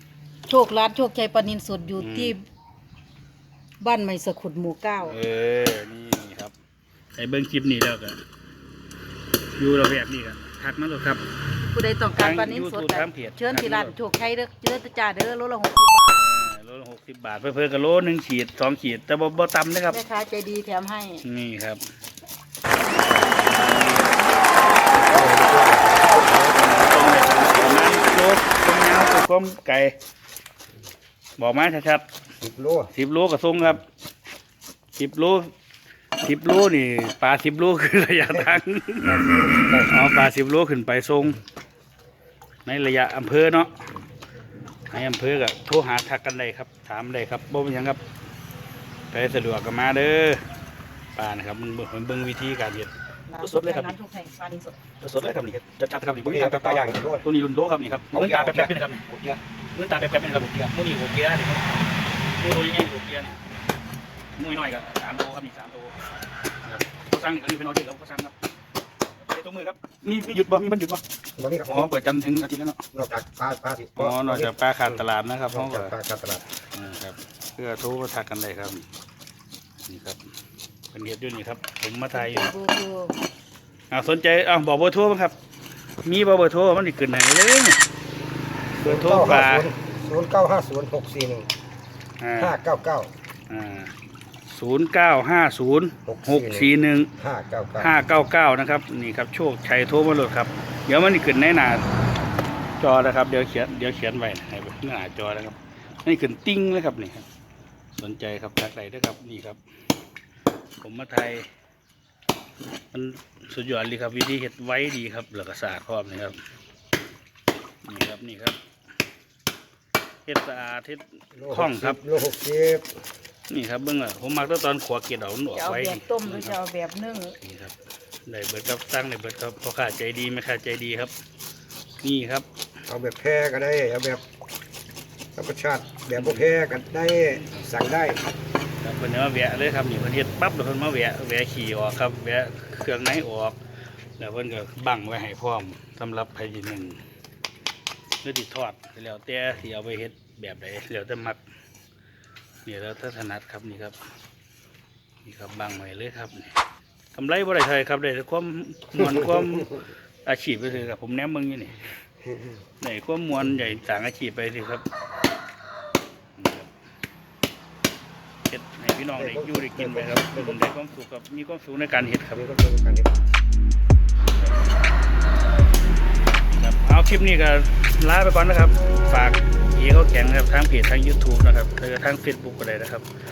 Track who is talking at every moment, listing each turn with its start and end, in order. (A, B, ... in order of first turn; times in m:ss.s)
0:00.5-0:02.4 A
0:02.0-0:02.4 B
0:03.8-0:05.2 A
0:05.0-0:06.5 B
0:07.2-0:08.2 B
0:09.6-0:11.2 B
0:11.6-0:16.2 A
0:12.2-0:14.0 B
0:16.2-0:20.0 B
0:19.9-0:21.2 A
0:21.2-0:21.8 B
0:23.0-0:24.1 B
0:25.0-0:26.7 C
0:26.2-0:30.0 B
0:31.4-0:32.1 B
0:32.4-0:32.9 C
0:32.9-0:33.8 B
0:35.0-0:35.5 B
0:36.2-0:39.2 B
0:38.4-0:39.9 C
0:39.9-0:41.4 B
0:42.7-0:43.8 B
0:44.9-0:48.0 B
0:49.1-0:50.4 B
0:51.2-0:53.9 B
0:53.3-0:54.8 A
0:55.0-1:01.7 B
0:56.2-0:57.2 C
0:58.1-0:58.7 C
1:02.4-1:03.4 B
1:04.4-1:06.1 B
1:06.6-1:08.3 B
1:09.2-1:11.0 B
1:11.4-1:11.9 C
1:11.6-1:12.8 B
1:12.9-1:16.5 C
1:14.0-1:16.0 B
1:16.7-1:18.9 B
1:19.9-1:20.2 B
1:20.9-1:22.5 B
1:22.1-1:23.2 A
1:23.9-1:25.4 B
1:26.0-1:27.8 B
1:28.7-1:31.5 C
1:28.8-1:29.7 B
1:32.2-1:32.6 B
1:32.4-1:33.1 C
1:33.5-1:33.9 B
1:34.5-1:37.1 B
1:36.0-1:37.9 C
1:37.8-1:41.8 B
1:42.8-1:47.3 B
1:47.9-1:49.6 B
1:50.8-1:51.5 B
1:52.9-1:56.4 B
1:57.8-1:58.6 B
2:00.3-2:02.0 B
2:01.4-2:03.0 C
2:03.5-2:06.6 B
2:05.5-2:07.4 A
2:07.4-2:11.1 B
2:12.0-2:12.5 B
2:12.9-2:14.2 C
2:15.4-2:18.2 C
2:16.2-2:16.5 B
2:17.3-2:17.6 B
2:18.8-2:23.6 B
2:24.2-2:27.0 B
2:28.2-2:31.4 B
2:32.6-2:34.0 B
2:35.2-2:36.5 B
2:37.1-2:41.9 B
2:39.0-2:39.7 C
2:42.8-2:44.8 B
2:46.4-2:46.7 B
2:48.5-2:52.4 B
2:49.2-2:50.7 C
2:52.3-2:53.1 C
2:56.5-3:03.1 B